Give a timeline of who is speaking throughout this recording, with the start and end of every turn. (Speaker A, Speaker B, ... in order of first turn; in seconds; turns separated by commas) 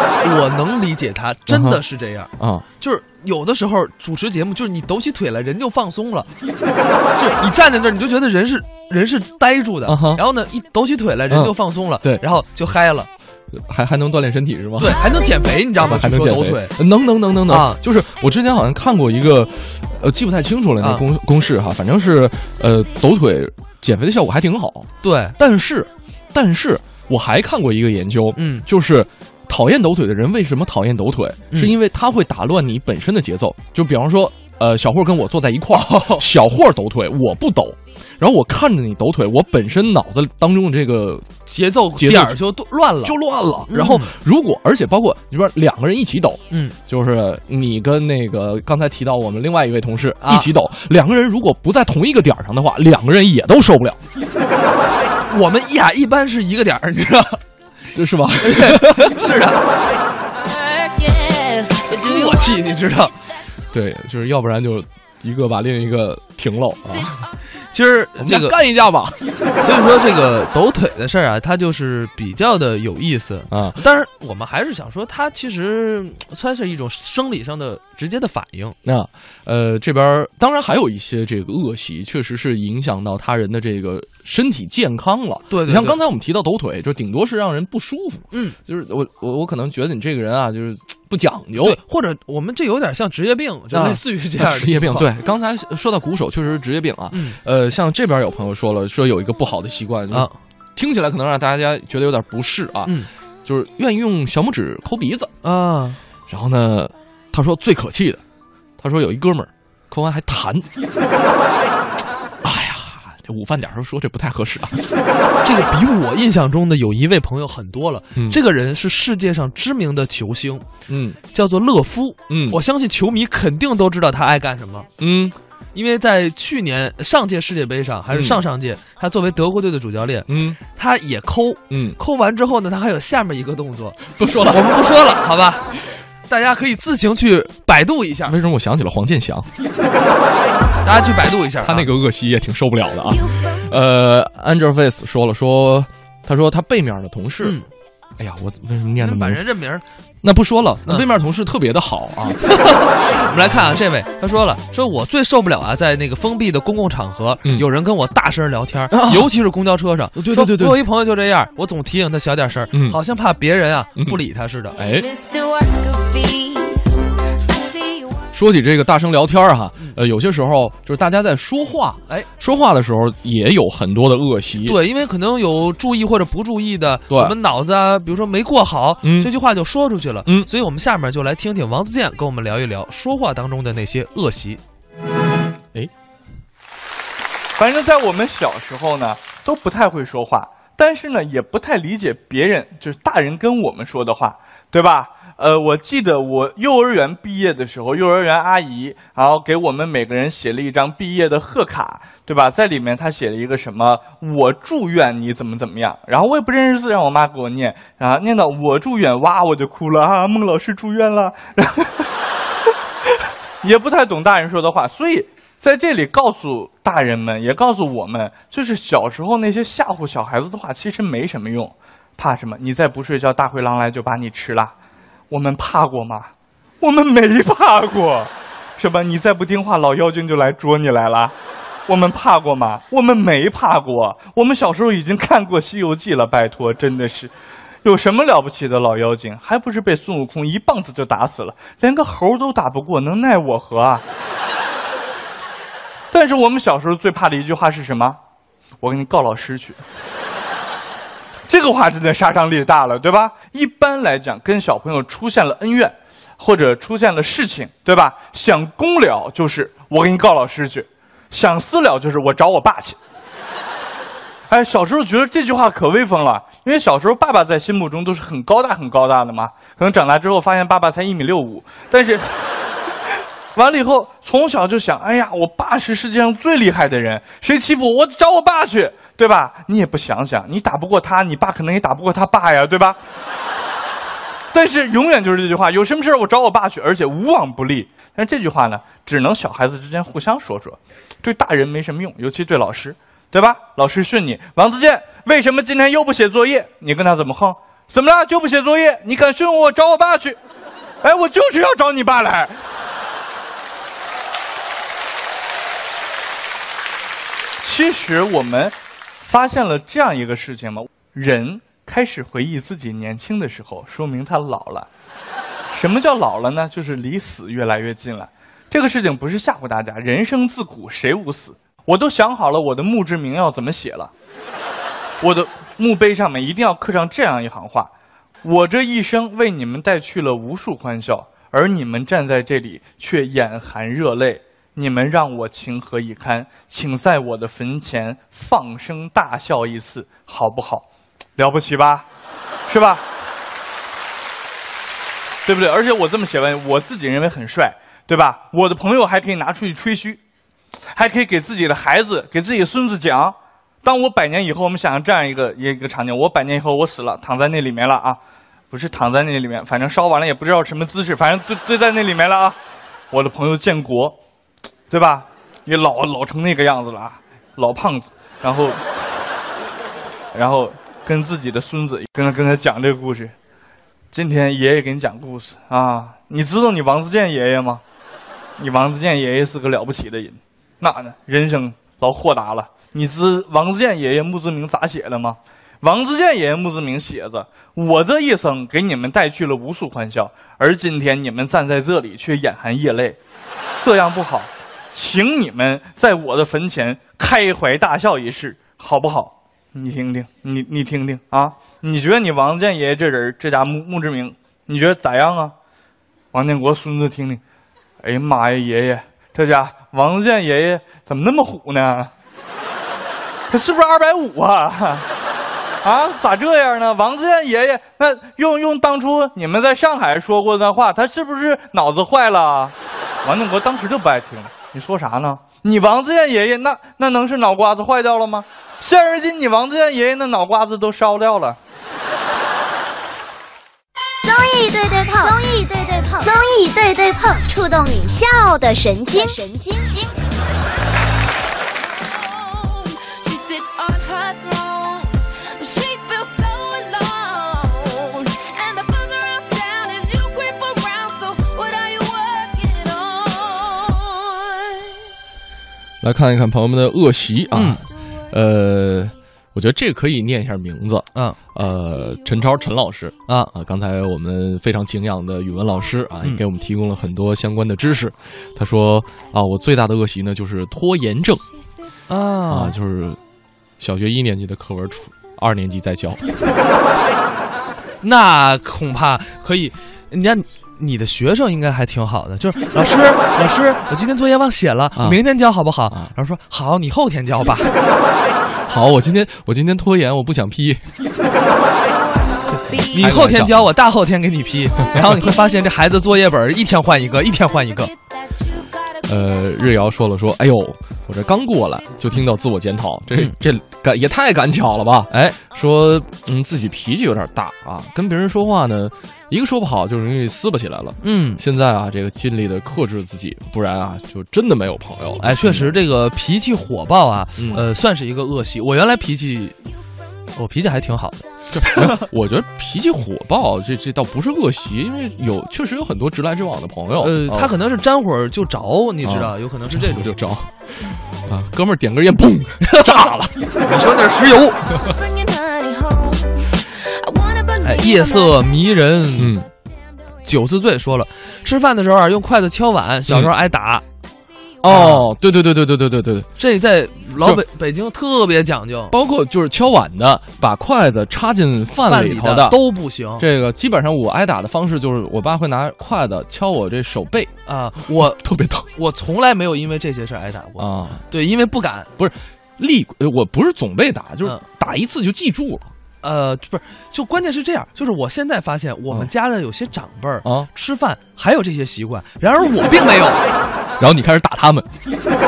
Speaker A: 0.2-6.3, Speaker B: 1.5-1.8, Speaker B: 2.4-2.7, Speaker A: 7.2-13.1, Speaker B: 9.8-10.2, Speaker B: 11.3-12.2, Speaker B: 13.5-15.0, Speaker A: 14.8-16.8, Speaker B: 15.8-41.4, Speaker A: 17.5-17.8, Speaker A: 25.0-25.3, Speaker A: 28.4-28.7, Speaker A: 35.8-36.2, Speaker A: 41.5-43.2, Speaker B: 42.0-42.4, Speaker B: 43.0-54.0, Speaker A: 43.7-44.1, Speaker A: 46.5-46.8, Speaker A: 50.2-50.5, Speaker A: 55.3-57.4, Speaker B: 58.0-59.3, Speaker A: 58.4-59.6, Speaker C: 60.4-62.6, Speaker A: 62.1-63.1, Speaker B: 63.7-67.1, Speaker A: 67.7-68.6, Speaker B: 68.2-69.2, Speaker A: 69.6-78.8, Speaker B: 73.5-73.8, Speaker B: 78.8-91.8, Speaker A: 85.5-86.0, Speaker A: 88.3-88.6, Speaker A: 91.6-95.1, Speaker B: 93.7-105.3, Speaker A: 97.1-97.4, Speaker A: 105.4-106.0, Speaker B: 106.3-108.2, Speaker B: 108.8-110.7, Speaker B: 112.4-114.8, Speaker A: 115.4-120.7, Speaker B: 118.2-118.4, Speaker B: 120.9-121.2, Speaker A: 121.3-124.9, Speaker B: 122.3-122.6, Speaker B: 125.0-125.3, Speaker A: 125.7-135.8, Speaker B: 128.1-128.4, Speaker B: 130.3-130.6, Speaker B: 131.7-132.0, Speaker B: 134.2-134.7, Speaker A: 136.3-138.3, Speaker B: 138.2-139.5, Speaker A: 140.8-141.9, Speaker B: 141.6-147.6, Speaker A: 147.4-147.7, Speaker B: 148.2-149.4, Speaker A: 149.0-149.8, Speaker B: 150.2-152.4, Speaker A: 152.4-164.8, Speaker B: 158.9-159.3, Speaker B: 160.2-160.8, Speaker B: 162.7-163.0, Speaker B: 164.8-165.1, Speaker C: 164.8-168.2, Speaker B: 168.3-174.8, Speaker A: 174.6-184.6, Speaker B: 177.1-177.3, Speaker B: 179.0-179.3, Speaker D: 187.6-212.1, Speaker D: 213.6-224.7, Speaker D: 225.3-226.3, Speaker D: 226.8-231.3, Speaker D: 231.9-237.3, Speaker D: 237.8-244.0, Speaker D: 246.1-248.2, Speaker D: 248.8-249.8, Speaker D: 251.5-263.0, Speaker D: 264.5-272.2, Speaker D: 273.6-283.0, Speaker D: 284.5-300.4, Speaker D: 301.0-302.5, Speaker D: 307.6-314.9, Speaker D: 315.7-324.1, Speaker D: 325.2-327.9, Speaker D: 328.4-340.9, Speaker D: 341.4-342.1, Speaker D: 342.7-343.0, Speaker D: 345.4-350.2, Speaker D: 350.9-358.2, Speaker D: 358.7-362.6, Speaker D: 363.1-364.2, Speaker D: 364.9-368.8, Speaker D: 370.3-373.3, Speaker D: 374.1-377.8, Speaker D: 378.6-393.2, Speaker D: 393.8-405.5, Speaker D: 406.3-407.4, Speaker D: 408.0-412.1, Speaker D: 413.5-415.1, Speaker D: 415.8-422.7, Speaker D: 423.2-431.6, Speaker E: 434.2-440.1, Speaker C: 442.0-454.9, Speaker B: 456.0-471.4, Speaker A: 457.5-457.8, Speaker A: 472.1-472.7, Speaker B: 472.5-473.2, Speaker B: 473.8-476.2, Speaker A: 478.0-487.7, Speaker B: 484.9-485.2, Speaker B: 488.7-490.8, Speaker C: 491.6-493.1, Speaker A: 492.9-497.9, Speaker B: 492.9-493.7, Speaker B: 494.9-495.2, Speaker B: 499.1-515.8, Speaker A: 505.1-505.4, Speaker A: 511.0-511.4, Speaker A: 515.2-519.6, Speaker B: 517.4-517.6, Speaker A: 520.4-521.9, Speaker B: 521.5-527.5, Speaker A: 527.0-530.1, Speaker B: 529.0-533.2, Speaker A: 532.6-534.7, Speaker C: 534.9-538.6, Speaker A: 537.6-539.4, Speaker B: 539.1-539.5, Speaker A: 540.2-543.8, Speaker B: 544.6-546.3, Speaker A: 544.6-545.1, Speaker A: 546.4-548.9, Speaker B: 548.9-552.6, Speaker A: 551.9-553.2, Speaker B: 553.2-557.3, Speaker A: 557.5-558.2, Speaker B: 557.9-558.7, Speaker A: 558.7-561.9, Speaker B: 560.6-561.0, Speaker B: 562.0-565.7, Speaker A: 566.0-573.2, Speaker B: 570.2-570.5, Speaker B: 573.8-574.7